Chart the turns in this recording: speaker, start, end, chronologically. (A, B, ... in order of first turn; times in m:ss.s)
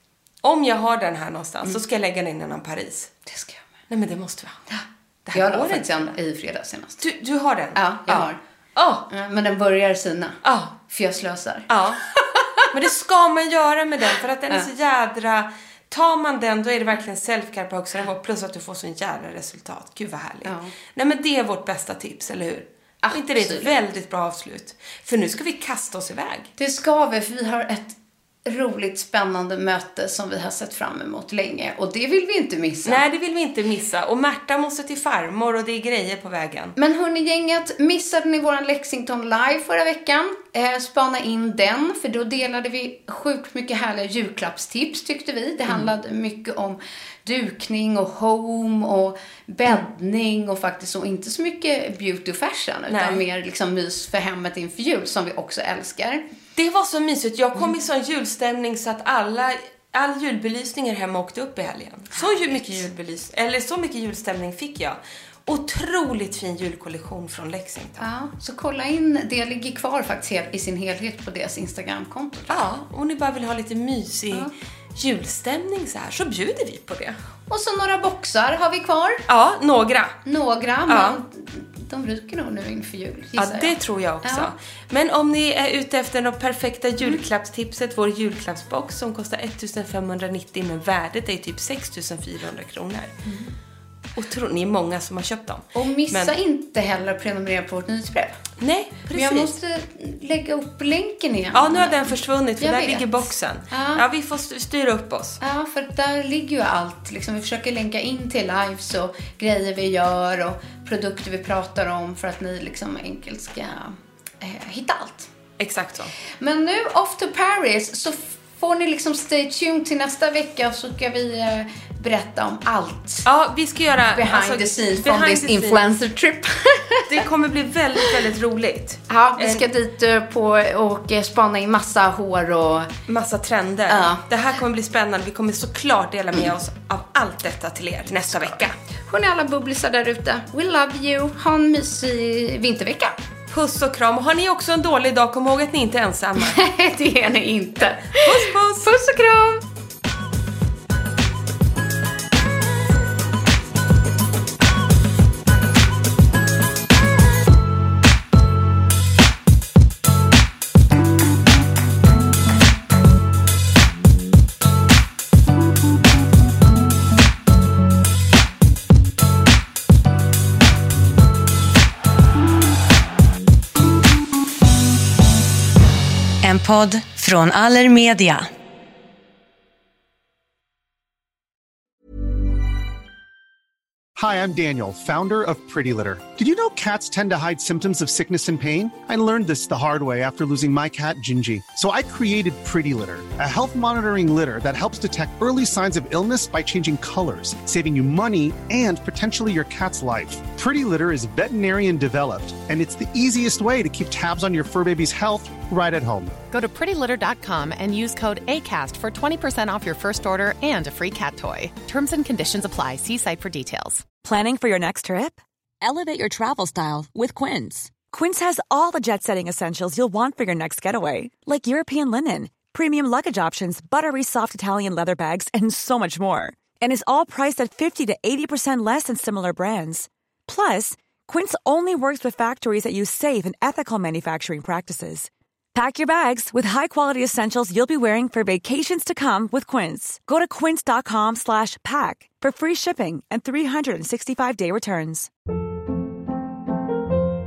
0:00.4-0:03.1 A
0:03.2-0:03.6 B
0:03.9-0:06.1 A
0:05.3-0:07.0 B
0:07.0-0:09.0 A
0:07.7-0:08.4 B
0:09.1-0:10.4 B
0:10.4-0:10.7 A
0:10.9-0:12.7 B
0:11.7-0:12.0 A
0:12.7-0:26.5 A
0:20.4-0:20.7 B
0:23.0-0:23.8 B
0:26.6-0:33.0 B
0:32.8-0:36.8 A
0:36.8-0:56.2 B
0:52.9-0:53.2 A
0:56.5-1:08.1 A
1:02.1-1:02.9 B
1:08.0-1:12.7 B
1:12.5-1:17.2 A
1:17.5-1:19.2 B
1:19.3-1:20.2 A
1:20.2-1:24.5 B
1:20.9-1:21.2 A
1:23.4-1:33.1 A
1:33.2-1:33.5 B
1:34.1-1:36.4 A
1:35.7-1:38.3 B
1:38.6-1:39.5 A
1:39.1-1:44.0 B
1:41.5-1:45.4 A
1:45.4-1:55.3 B
1:55.6-1:56.1 A
1:56.4-2:03.2 B
2:03.2-2:05.8 A
2:04.1-2:07.2 B
2:07.1-2:09.6 A
2:09.1-2:12.9 B
2:13.1-2:18.7 A
2:13.9-2:14.2 B
2:18.4-2:23.2 B
2:23.5-2:26.6 A
2:26.4-2:29.6 B
2:28.0-2:28.9 A
2:56.4-2:58.5 C
3:04.2-3:26.4 D
3:26.5-3:34.2 E
3:34.2-4:05.3 F